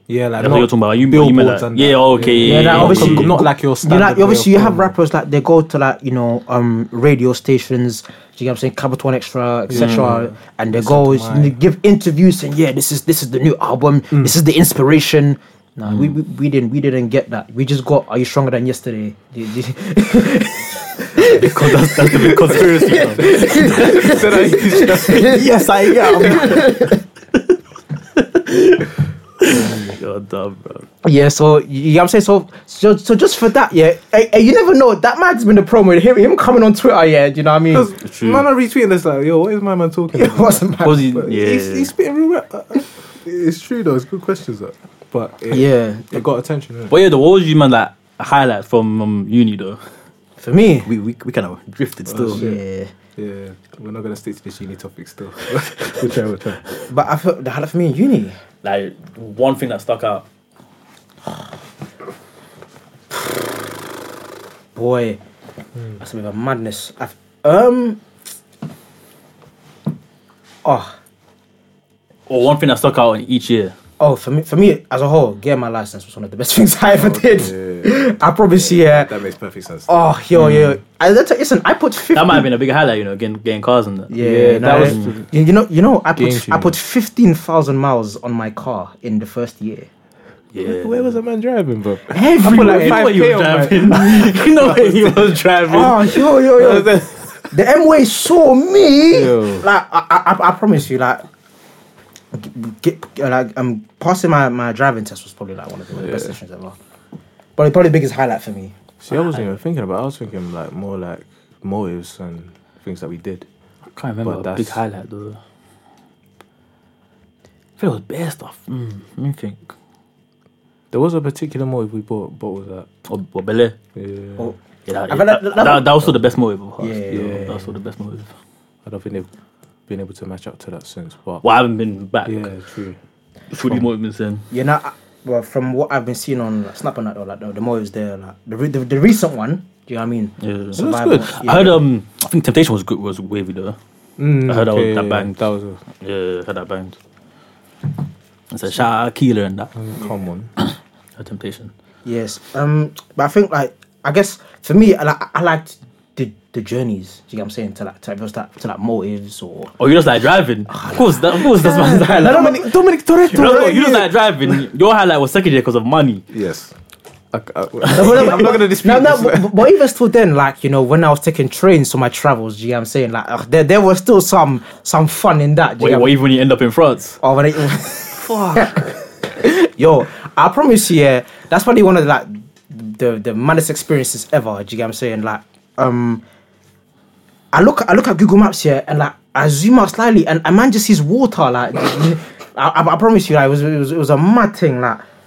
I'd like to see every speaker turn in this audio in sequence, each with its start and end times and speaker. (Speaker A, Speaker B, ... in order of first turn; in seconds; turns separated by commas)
Speaker A: 0.1-4.9, Speaker B: 0.4-3.4, Speaker C: 2.4-27.0, Speaker A: 9.7-11.6, Speaker B: 21.2-24.2, Speaker A: 23.2-26.6, Speaker B: 25.3-26.6, Speaker B: 28.2-28.9, Speaker B: 29.4-30.9, Speaker C: 31.0-37.9, Speaker A: 37.7-47.0, Speaker B: 38.0-38.5, Speaker C: 40.1-41.1, Speaker B: 40.8-41.9, Speaker C: 45.5-46.2, Speaker B: 46.9-49.8, Speaker C: 50.4-50.9, Speaker B: 50.9-52.4, Speaker A: 52.1-52.6, Speaker C: 52.3-52.9, Speaker A: 53.2-56.6, Speaker C: 56.9-58.4, Speaker B: 58.6-60.2, Speaker C: 64.8-65.2, Speaker C: 66.0-68.0, Speaker C: 70.6-70.9, Speaker B: 72.3-73.7, Speaker C: 74.0-79.1, Speaker A: 76.9-78.0, Speaker A: 78.5-79.9, Speaker C: 79.9-82.5, Speaker B: 80.4-80.8, Speaker B: 82.1-85.1, Speaker C: 84.1-89.9, Speaker A: 84.2-85.3, Speaker A: 86.2-86.8, Speaker B: 90.5-91.1, Speaker A: 90.6-95.4, Speaker C: 92.1-93.1, Speaker B: 92.4-96.0, Speaker C: 95.7-101.2, Speaker A: 96.4-97.4, Speaker A: 99.1-99.7, Speaker C: 102.3-106.8, Speaker A: 106.0-106.3, Speaker C: 107.6-108.7, Speaker A: 109.0-113.5, Speaker B: 113.9-115.4, Speaker A: 114.2-114.8, Speaker B: 117.8-119.7, Speaker A: 120.9-122.9, Speaker B: 123.1-123.8, Speaker A: 124.0-124.5, Speaker B: 124.9-128.3, Speaker C: 125.1-126.1, Speaker C: 126.8-127.6, Speaker A: 127.1-127.6, Speaker A: 128.8-129.3, Speaker A: 129.9-131.4, Speaker B: 131.4-132.5, Speaker A: 132.2-133.0, Speaker B: 133.5-134.4, Speaker C: 134.5-141.8, Speaker B: 140.4-143.8, Speaker A: 140.8-141.3, Speaker A: 144.2-145.8, Speaker B: 144.4-145.4, Speaker B: 146.0-147.0, Speaker B: 148.5-149.7, Speaker A: 149.8-150.5, Speaker B: 150.6-151.7, Speaker C: 152.1-159.7, Speaker B: 159.8-162.6, Speaker C: 160.7-163.7, Speaker A: 161.8-164.1, Speaker B: 163.3-166.2, Speaker A: 166.3-166.7, Speaker A: 167.3-169.5, Speaker C: 167.9-176.2, Speaker B: 167.9-168.2, Speaker B: 175.8-177.2, Speaker C: 177.2-186.2, Speaker A: 178.3-178.7, Speaker C: 187.5-195.0